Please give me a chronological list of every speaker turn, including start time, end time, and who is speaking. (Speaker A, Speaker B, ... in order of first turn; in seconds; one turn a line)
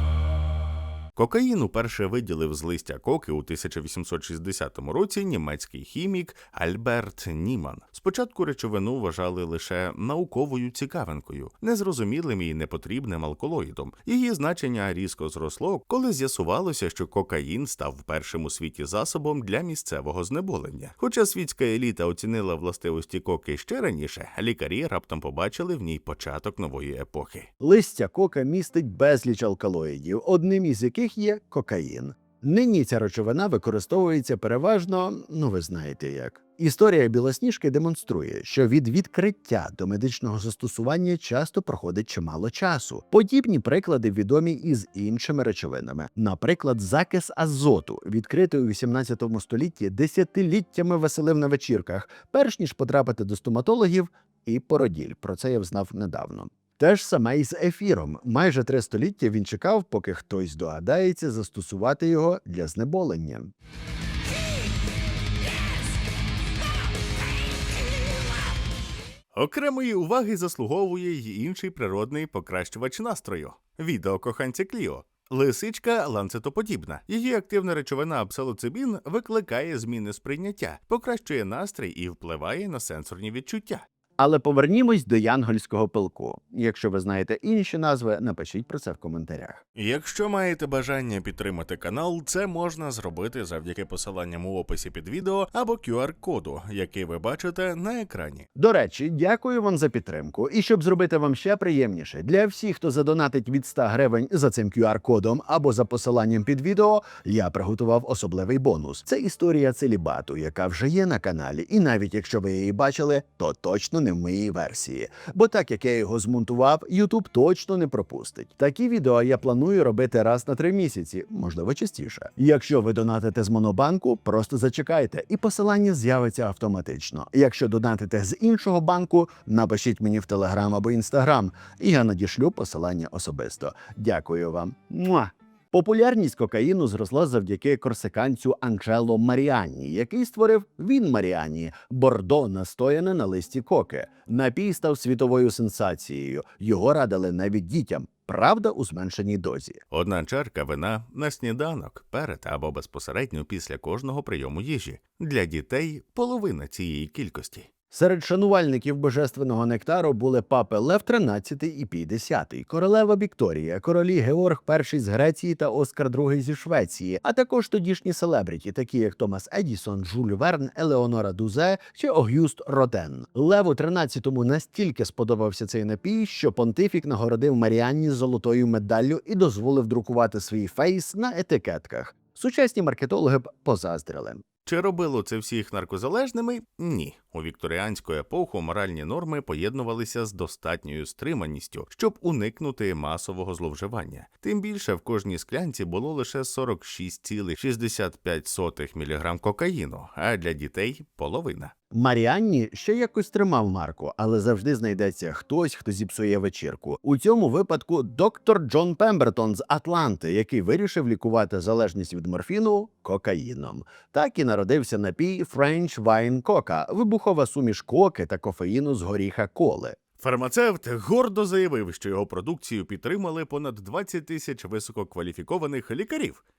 Speaker A: 1.1-27.5
Speaker B: 27.6-63.5
Speaker A: 69.3-83.8
Speaker B: 84.2-89.6
Speaker A: 89.8-98.5
Speaker B: 98.5-149.8
Speaker A: 149.9-157.7
Speaker B: 157.9-184.4
Speaker A: 184.7-201.7
Speaker B: 201.9-219.9
Speaker A: 220.2-226.4